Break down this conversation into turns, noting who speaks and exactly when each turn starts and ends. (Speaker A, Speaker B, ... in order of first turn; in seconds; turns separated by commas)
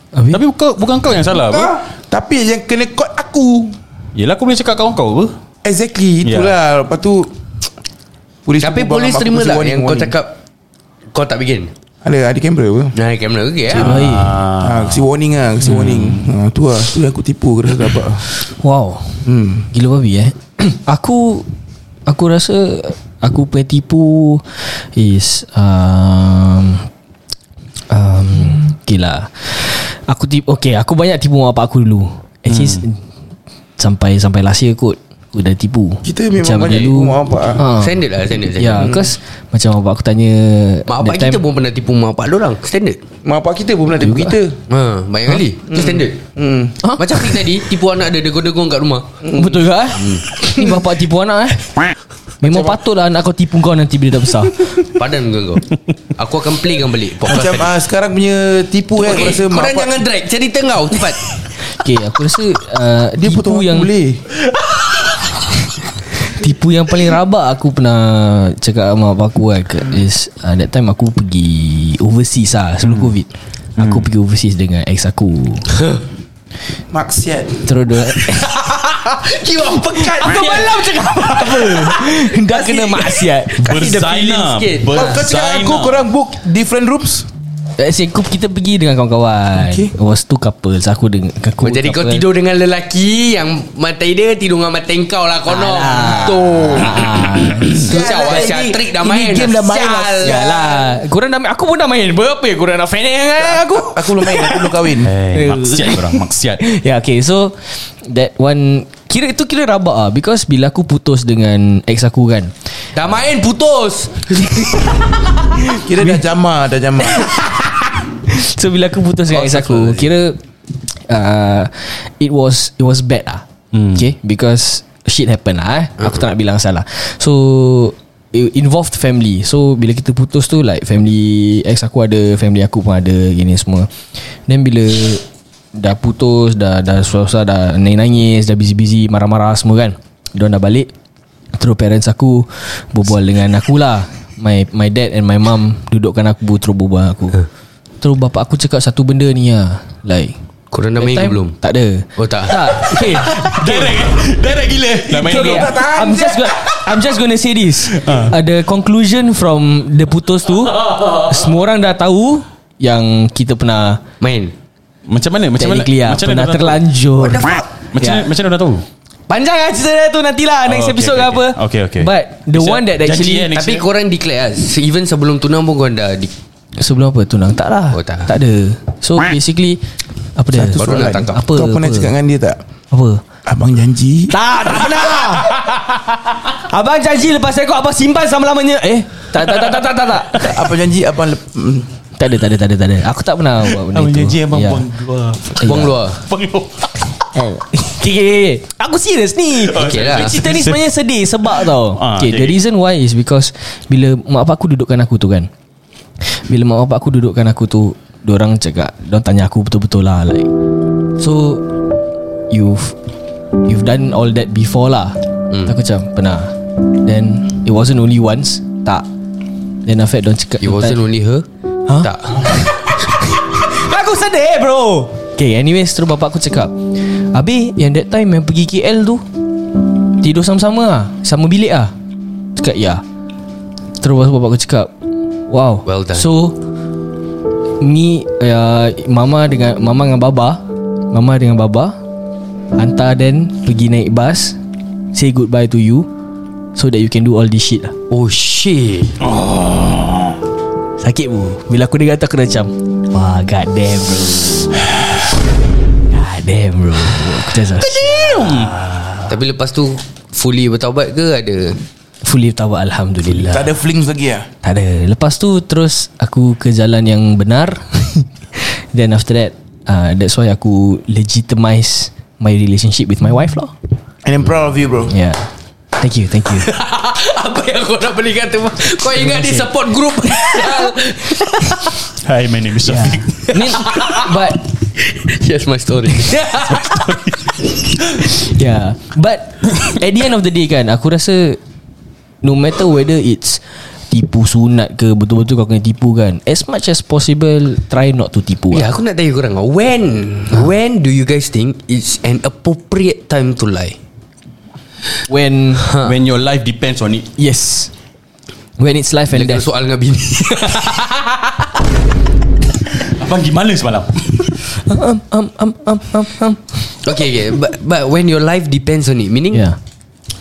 Speaker A: 0.1-0.4, Speaker B: 0.3-1.7, Speaker C: 1.3-3.8, Speaker B: 4.1-5.3, Speaker C: 5.6-7.3, Speaker B: 6.2-6.5, Speaker C: 8.4-10.2, Speaker D: 8.6-10.4, Speaker D: 11.1-11.7, Speaker C: 12.0-12.9, Speaker D: 12.9-14.0, Speaker A: 13.7-14.4, Speaker B: 13.7-15.0, Speaker C: 14.1-18.2, Speaker B: 15.6-16.3, Speaker A: 18.6-21.5, Speaker C: 19.2-19.7, Speaker A: 22.1-26.9, Speaker A: 27.9-33.0, Speaker B: 32.5-32.8, Speaker A: 33.8-41.4, Speaker C: 36.0-37.6, Speaker D: 37.7-39.1, Speaker D: 40.9-43.0, Speaker C: 43.2-44.6, Speaker A: 44.0-44.3, Speaker D: 44.7-46.2, Speaker C: 45.6-46.8, Speaker A: 46.8-47.1, Speaker D: 47.0-49.3, Speaker C: 49.2-49.6, Speaker A: 49.3-51.8, Speaker D: 49.9-50.2, Speaker A: 52.4-54.8, Speaker C: 52.4-52.8, Speaker D: 54.8-57.7, Speaker C: 57.2-60.0, Speaker D: 59.0-61.3, Speaker A: 61.6-63.9, Speaker C: 63.1-64.2, Speaker A: 66.2-75.8, Speaker B: 73.8-74.1, Speaker C: 76.9-77.7, Speaker A: 77.6-78.8, Speaker D: 79.2-80.8, Speaker A: 79.7-83.8, Speaker C: 79.9-80.9, Speaker C: 82.5-83.1, Speaker D: 83.6-85.2, Speaker B: 83.6-86.1, Speaker C: 84.9-87.3, Speaker A: 87.8-92.2, Speaker C: 89.5-89.9, Speaker D: 91.6-97.0, Speaker A: 95.5-98.3, Speaker C: 96.0-96.8, Speaker C: 97.7-100.4, Speaker D: 97.7-100.8, Speaker A: 100.2-112.5, Speaker C: 103.4-105.1, Speaker B: 105.0-106.6, Speaker D: 112.9-115.0, Speaker A: 115.5-116.2, Speaker C: 115.7-117.3, Speaker A: 117.1-120.4, Speaker D: 119.3-120.1, Speaker A: 121.1-140.9, Speaker B: 123.7-124.0, Speaker A: 141.5-147.4, Speaker A: 148.0-150.3, Speaker D: 150.7-151.6, Speaker A: 151.0-154.0, Speaker D: 152.2-152.9, Speaker B: 152.8-155.8, Speaker C: 155.1-156.8, Speaker A: 155.2-164.0, Speaker B: 157.9-158.3, Speaker D: 164.2-164.5, Speaker B: 165.1-166.8, Speaker A: 165.6-168.3, Speaker D: 167.2-167.6, Speaker B: 167.9-168.8, Speaker A: 169.3-173.5, Speaker B: 170.7-173.8, Speaker D: 173.5-176.3, Speaker A: 176.8-179.8, Speaker D: 177.9-178.3, Speaker A: 180.3-182.1, Speaker C: 180.5-182.6, Speaker D: 180.8-181.4, Speaker A: 182.9-183.2, Speaker C: 183.4-184.3, Speaker A: 184.3-185.8, Speaker A: 186.5-190.6, Speaker C: 190.3-191.9, Speaker A: 192.2-194.8, Speaker B: 193.8-197.2, Speaker A: 195.6-196.0, Speaker D: 195.6-196.2, Speaker A: 197.3-205.5, Speaker B: 199.6-200.8, Speaker D: 199.8-200.4, Speaker B: 201.6-202.6, Speaker A: 206.2-210.5, Speaker A: 211.2-211.7, Speaker A: 212.5-212.9, Speaker A: 213.6-219.1, Speaker D: 215.5-215.7, Speaker A: 219.8-221.0, Speaker D: 220.6-221.4, Speaker A: 221.9-229.2, Speaker D: 222.0-222.5, Speaker A: 230.2-231.9, Speaker A: 232.6-233.0, Speaker A: 234.0-234.9, Speaker A: 235.5-236.6, Speaker D: 235.8-236.3, Speaker A: 237.8-241.9, Speaker A: 242.8-244.6, Speaker A: 245.1-246.1, Speaker A: 246.7-247.9, Speaker D: 248.1-249.2, Speaker B: 249.2-250.3, Speaker A: 251.0-254.9, Speaker A: 256.1-258.1, Speaker B: 257.7-259.2, Speaker D: 259.3-261.8, Speaker A: 262.2-263.7, Speaker C: 263.4-264.5, Speaker A: 264.6-273.7, Speaker C: 274.2-275.1, Speaker A: 275.1-275.4, Speaker A: 276.0-276.7, Speaker D: 276.6-281.9, Speaker A: 279.1-279.7, Speaker B: 282.1-283.8, Speaker A: 282.8-284.6, Speaker D: 283.5-287.3, Speaker B: 286.7-287.5, Speaker A: 288.2-291.6, Speaker A: 292.4-298.9, Speaker D: 298.7-304.0, Speaker A: 305.3-305.9, Speaker D: 305.8-306.1, Speaker B: 306.0-307.3, Speaker A: 307.4-307.9, Speaker A: 308.8-309.6, Speaker D: 309.3-311.6, Speaker B: 312.9-314.6, Speaker A: 314.8-317.0, Speaker D: 317.0-319.6